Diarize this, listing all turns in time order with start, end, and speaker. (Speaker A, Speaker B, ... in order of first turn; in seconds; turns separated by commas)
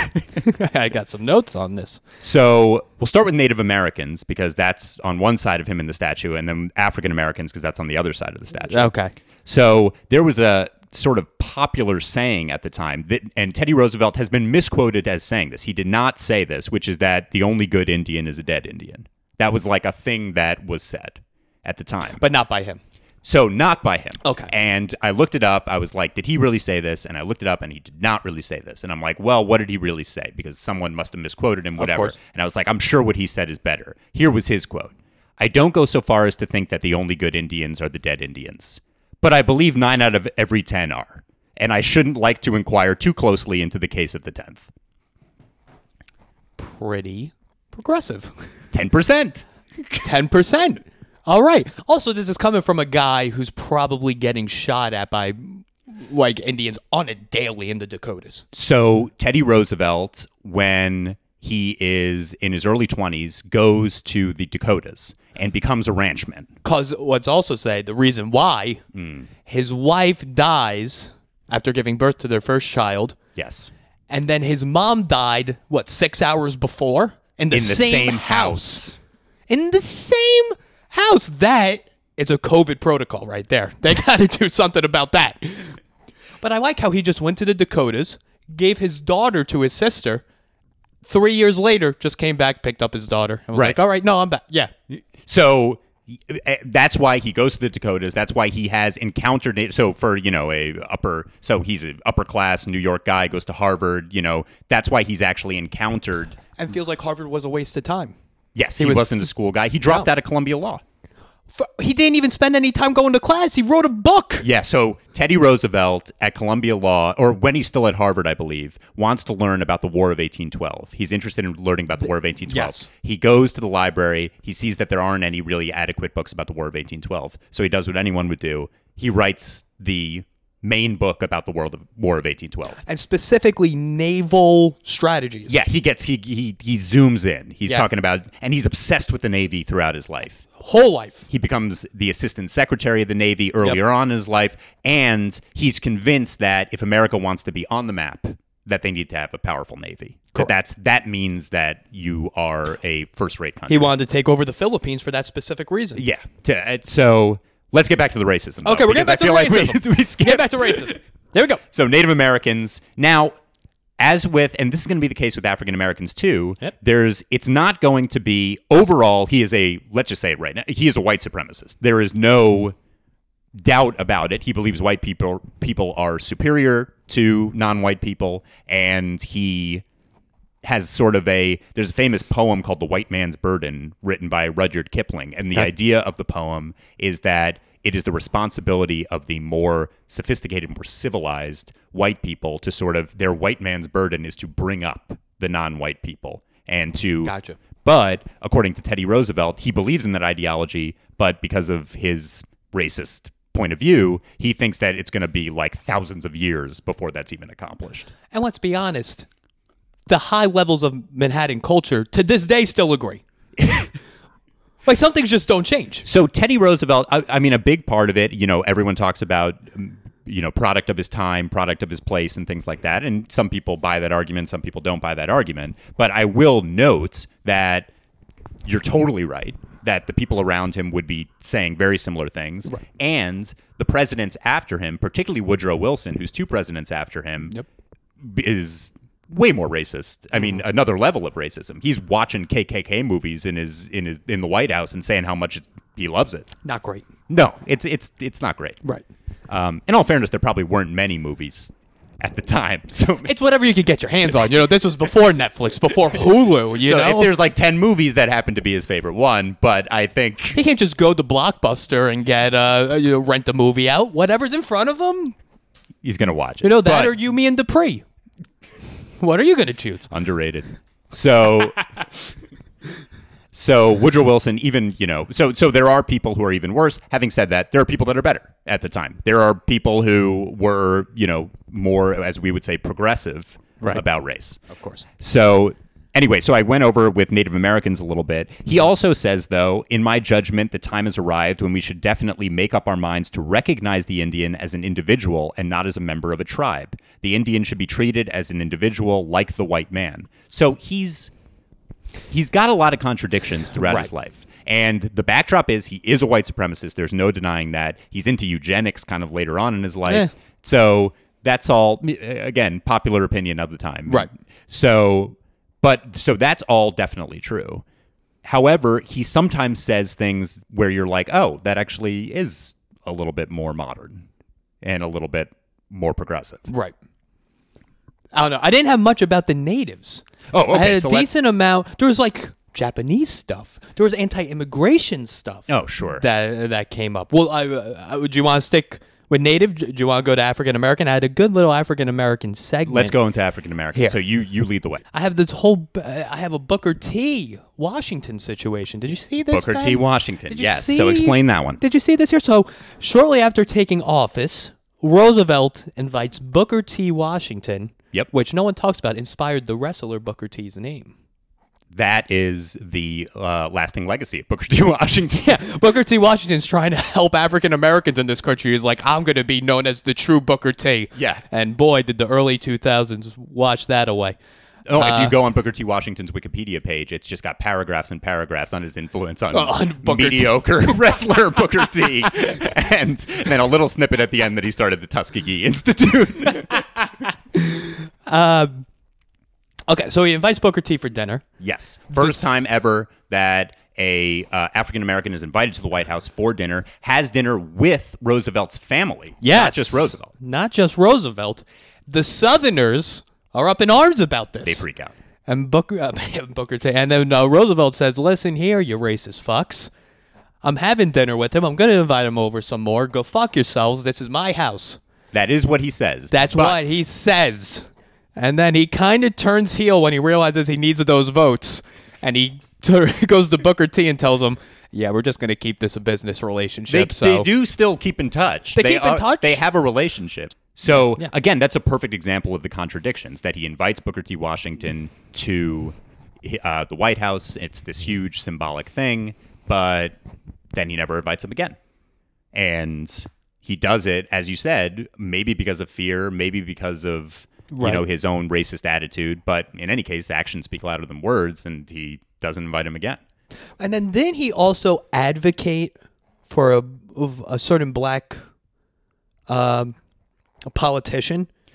Speaker A: 0.3-2.0, Speaker B: 2.2-8.9, Speaker A: 8.7-9.1, Speaker B: 9.4-22.2, Speaker A: 22.2-22.8, Speaker B: 23.2-44.7, Speaker A: 24.2-24.5, Speaker A: 31.8-32.1, Speaker A: 46.6-48.5, Speaker B: 48.7-50.0, Speaker A: 50.0-58.4, Speaker B: 58.5-66.5, Speaker A: 66.6-68.8, Speaker B: 68.9-69.3, Speaker A: 69.5-73.2, Speaker B: 73.3-73.7, Speaker A: 74.1-78.9, Speaker B: 77.5-79.0, Speaker A: 79.5-85.8, Speaker A: 86.4-90.2, Speaker A: 91.0-94.7, Speaker B: 93.5-93.8, Speaker B: 94.9-106.4, Speaker A: 106.6-108.1, Speaker B: 108.5-110.8, Speaker A: 108.8-109.3, Speaker A: 111.5-114.5, Speaker B: 114.4-132.8, Speaker A: 122.5-122.9, Speaker A: 132.8-135.6, Speaker B: 135.5-140.4, Speaker A: 140.6-141.3, Speaker B: 141.3-153.9, Speaker A: 153.7-156.0, Speaker B: 155.9-161.0, Speaker A: 158.6-161.6, Speaker B: 161.7-163.3, Speaker B: 164.0-172.7, Speaker B: 173.6-179.8, Speaker B: 180.6-208.1, Speaker A: 197.2-197.6, Speaker A: 208.3-209.3, Speaker A: 210.1-213.2, Speaker A: 214.8-216.0, Speaker B: 216.0-227.9, Speaker B: 228.6-237.6, Speaker B: 238.2-246.5, Speaker A: 246.6-247.1, Speaker B: 247.3-248.8, Speaker B: 249.5-253.3, Speaker A: 253.2-257.3, Speaker B: 256.8-260.6, Speaker A: 260.5-265.4, Speaker B: 266.0-267.1, Speaker A: 266.6-268.0, Speaker A: 269.2-270.1, Speaker B: 270.1-271.9, Speaker B: 273.5-284.6, Speaker A: 284.7-285.0, Speaker B: 285.2-301.3, Speaker B: 302.3-317.8, Speaker A: 303.8-304.1, Speaker B: 318.4-324.2, Speaker B: 324.8-326.7, Speaker A: 326.7-326.9, Speaker A: 328.3-343.1, Speaker B: 330.5-331.3, Speaker B: 335.7-336.2, Speaker B: 342.9-345.0, Speaker A: 345.1-361.1, Speaker B: 349.5-351.8, Speaker B: 361.9-365.6, Speaker A: 365.4-374.4, Speaker B: 371.1-371.4, Speaker B: 374.9-387.1, Speaker A: 374.9-375.4, Speaker A: 379.5-380.6, Speaker A: 387.5-388.8, Speaker A: 389.9-391.4, Speaker B: 391.6-400.3, Speaker A: 392.1-392.5, Speaker A: 399.4-404.8, Speaker B: 404.6-405.1, Speaker A: 405.5-409.9, Speaker A: 410.6-415.0, Speaker B: 415.3-417.0, Speaker A: 416.3-427.5, Speaker B: 426.9-440.1, Speaker A: 428.7-429.6, Speaker B: 440.7-441.8, Speaker B: 442.5-453.2, Speaker A: 447.7-448.0, Speaker A: 453.8-455.9, Speaker A: 456.5-458.4, Speaker A: 459.5-459.9, Speaker A: 460.6-461.5